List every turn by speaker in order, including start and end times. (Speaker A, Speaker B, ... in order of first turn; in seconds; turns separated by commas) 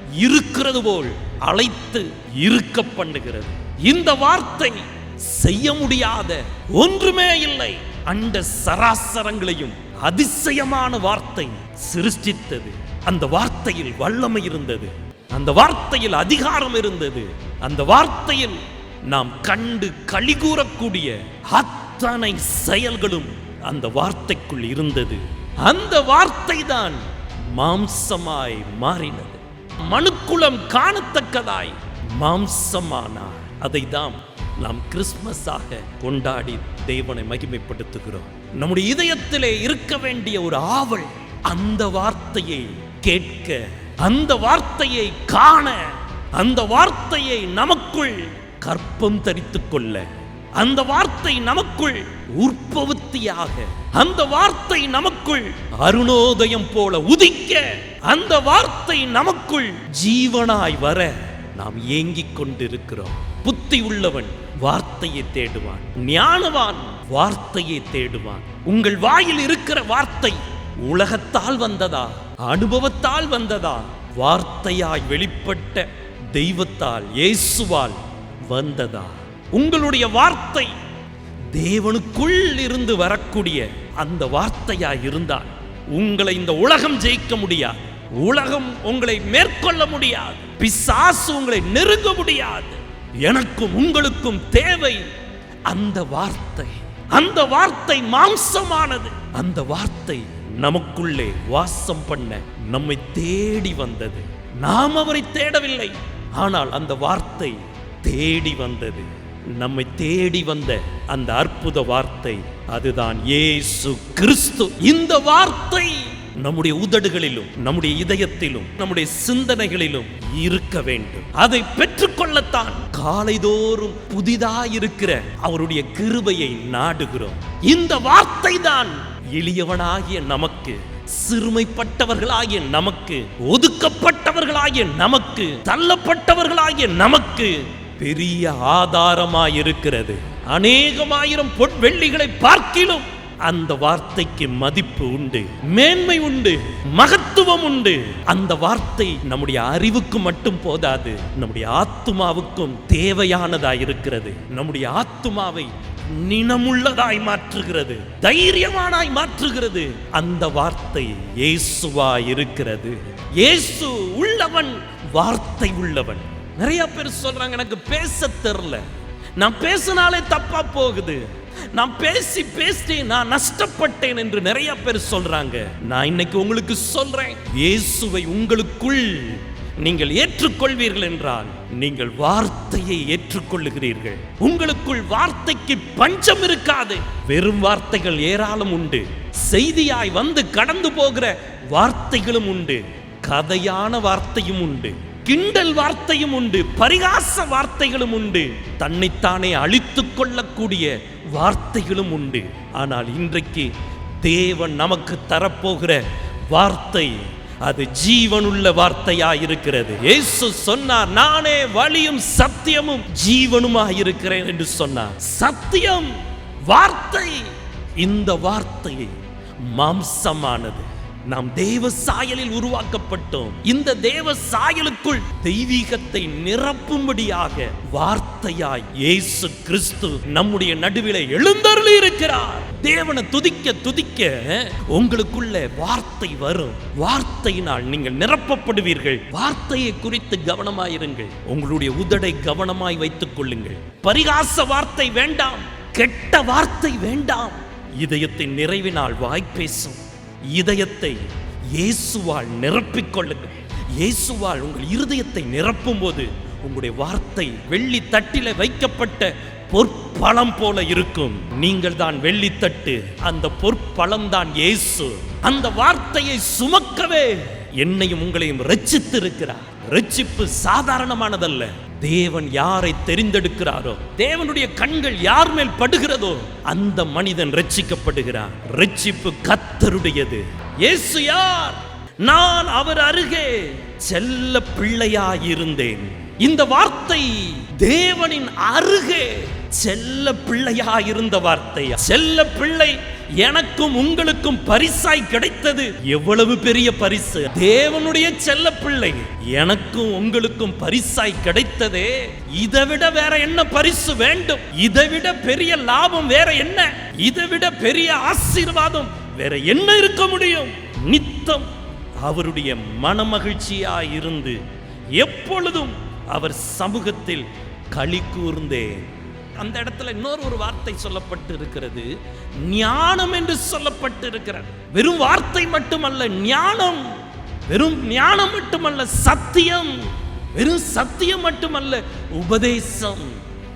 Speaker A: 0.2-80.7, Speaker A: 81.5-95.1, Speaker A: 95.7-168.8, Speaker A: 169.4-251.2, Speaker A: 251.8-311.7, Speaker A: 312.2-314.6, Speaker A: 315.2-333.4